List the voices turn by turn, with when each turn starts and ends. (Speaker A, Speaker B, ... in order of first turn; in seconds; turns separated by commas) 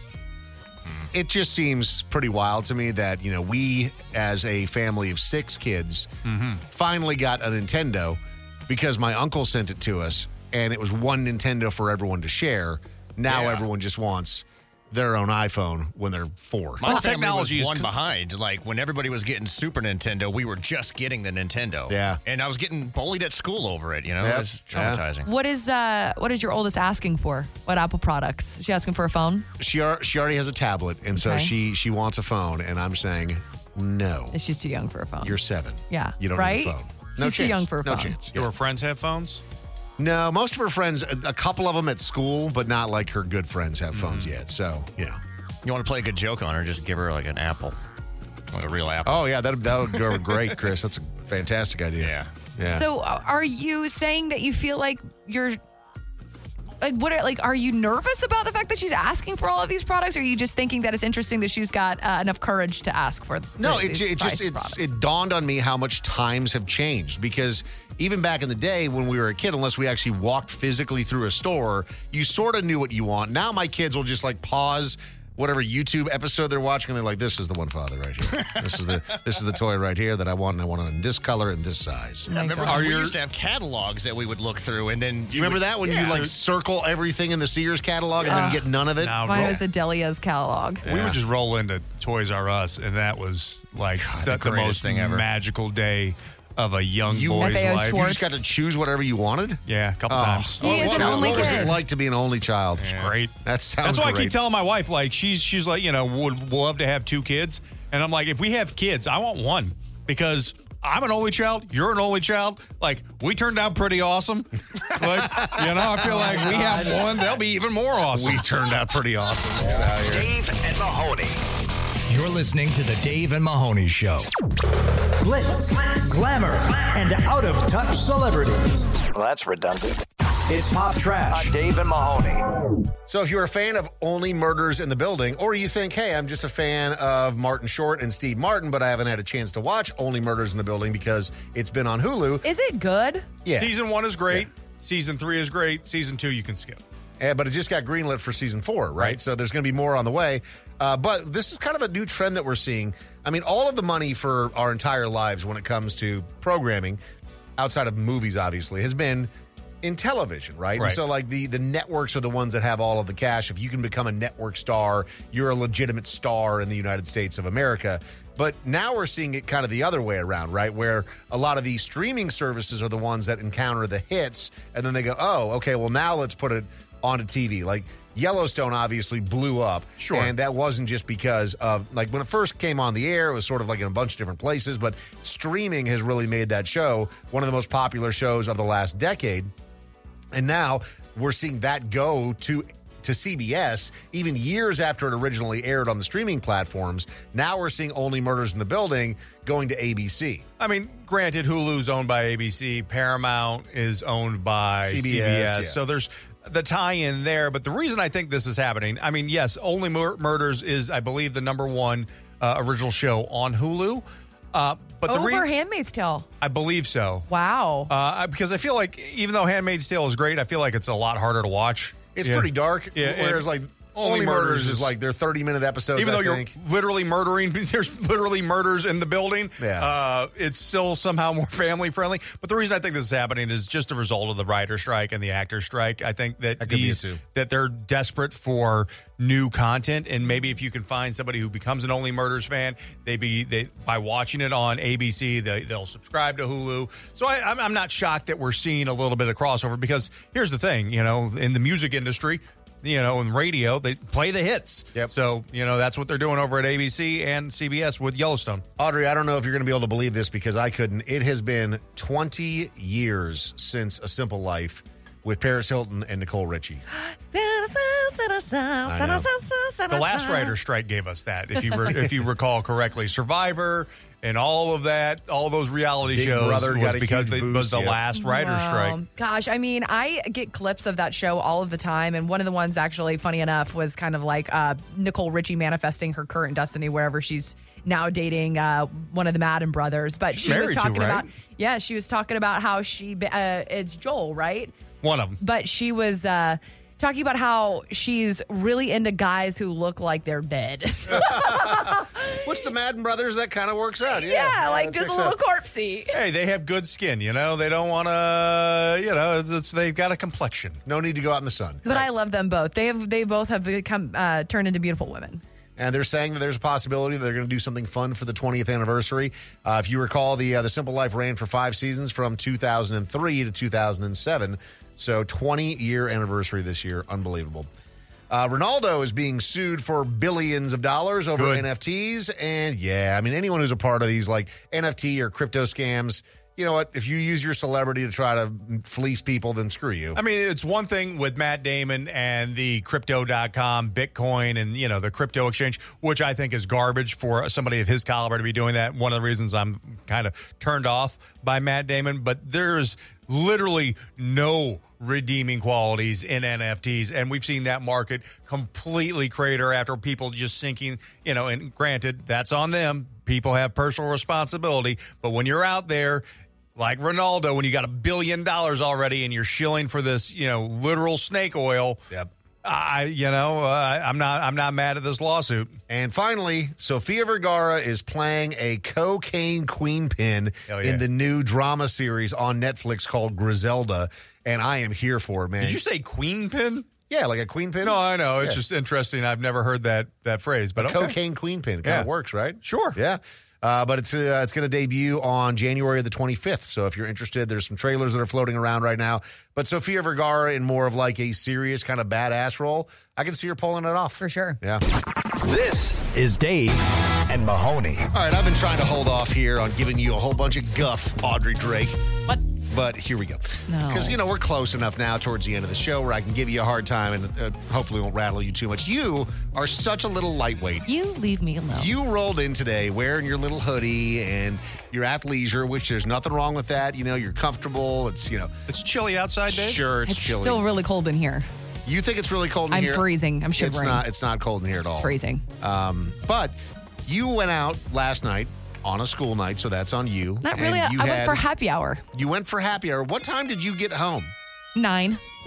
Speaker A: 1.1-6.1, Speaker B: 6.3-6.6, Speaker A: 6.7-17.0, Speaker C: 13.3-13.6, Speaker C: 16.8-25.3, Speaker B: 16.8-17.9, Speaker A: 21.9-22.2, Speaker A: 24.2-25.0, Speaker D: 25.2-29.5, Speaker A: 29.6-34.4, Speaker D: 31.1-31.5, Speaker D: 34.3-35.4, Speaker A: 35.2-38.5, Speaker D: 35.9-38.2, Speaker B: 38.3-39.4, Speaker A: 40.0-45.2, Speaker B: 43.9-44.3, Speaker C: 45.6-47.7, Speaker C: 48.5-49.2, Speaker A: 49.0-52.8, Speaker C: 52.0-52.3, Speaker D: 52.7-55.6, Speaker D: 56.8-64.9, Speaker A: 63.6-82.3, Speaker D: 82.3-82.8, Speaker C: 82.3-85.6, Speaker B: 82.6-83.2, Speaker A: 85.3-89.5, Speaker B: 85.9-86.3, Speaker D: 88.3-88.6, Speaker B: 89.0-89.6, Speaker D: 89.2-90.8, Speaker A: 90.8-91.2, Speaker B: 90.8-98.1, Speaker C: 94.0-95.2, Speaker A: 97.1-104.4, Speaker D: 97.4-98.4, Speaker B: 99.7-101.8, Speaker D: 100.6-101.7, Speaker C: 102.8-103.1, Speaker B: 102.9-103.3, Speaker B: 103.8-118.4, Speaker A: 115.0-116.9, Speaker A: 118.1-120.3, Speaker E: 120.2-121.4, Speaker E: 122.1-124.3, Speaker E: 125.2-132.4, Speaker A: 133.1-142.4, Speaker D: 142.4-143.3, Speaker A: 143.4-143.7, Speaker B: 143.6-146.8, Speaker A: 147.2-157.0, Speaker A: 157.6-159.3, Speaker A: 159.8-189.5, Speaker B: 180.0-180.3, Speaker A: 190.3-200.4, Speaker B: 200.6-215.5, Speaker A: 204.8-205.8, Speaker D: 215.1-216.3, Speaker B: 216.4-217.3, Speaker D: 217.3-217.9, Speaker B: 217.9-224.9, Speaker A: 222.1-226.5, Speaker B: 225.9-258.6, Speaker A: 229.6-229.9, Speaker A: 236.6-237.2, Speaker A: 258.8-266.8, Speaker D: 266.9-270.5, Speaker A: 268.9-269.3, Speaker B: 269.9-279.0, Speaker A: 276.1-278.0, Speaker D: 278.1-294.7, Speaker B: 290.3-291.3, Speaker B: 295.0-295.4, Speaker D: 295.4-302.4, Speaker A: 301.1-305.4, Speaker D: 304.1-306.1, Speaker B: 306.1-310.8, Speaker A: 310.8-312.0, Speaker D: 311.8-315.4, Speaker A: 315.8-327.7, Speaker A: 328.3-340.2, Speaker B: 331.4-331.7, Speaker B: 340.1-366.2, Speaker B: 366.8-372.0, Speaker B: 372.6-375.8, Speaker A: 375.9-385.8, Speaker B: 380.7-381.0, Speaker B: 385.6-386.9, Speaker A: 387.1-388.6, Speaker B: 387.8-391.1, Speaker A: 390.8-404.8, Speaker B: 391.8-392.1, Speaker B: 392.6-393.0, Speaker D: 404.2-404.6, Speaker E: 405.4-408.1, Speaker A: 408.1-412.0, Speaker A: 412.7-420.8, Speaker D: 413.7-414.2, Speaker D: 420.9-421.9, Speaker A: 421.7-428.5, Speaker B: 428.7-429.9, Speaker A: 429.5-430.6, Speaker D: 430.1-431.4, Speaker A: 431.9-433.1, Speaker D: 432.7-434.0, Speaker A: 433.6-441.4, Speaker D: 435.0-435.4, Speaker D: 440.4-442.0, Speaker A: 442.1-444.3, Speaker D: 444.7-445.2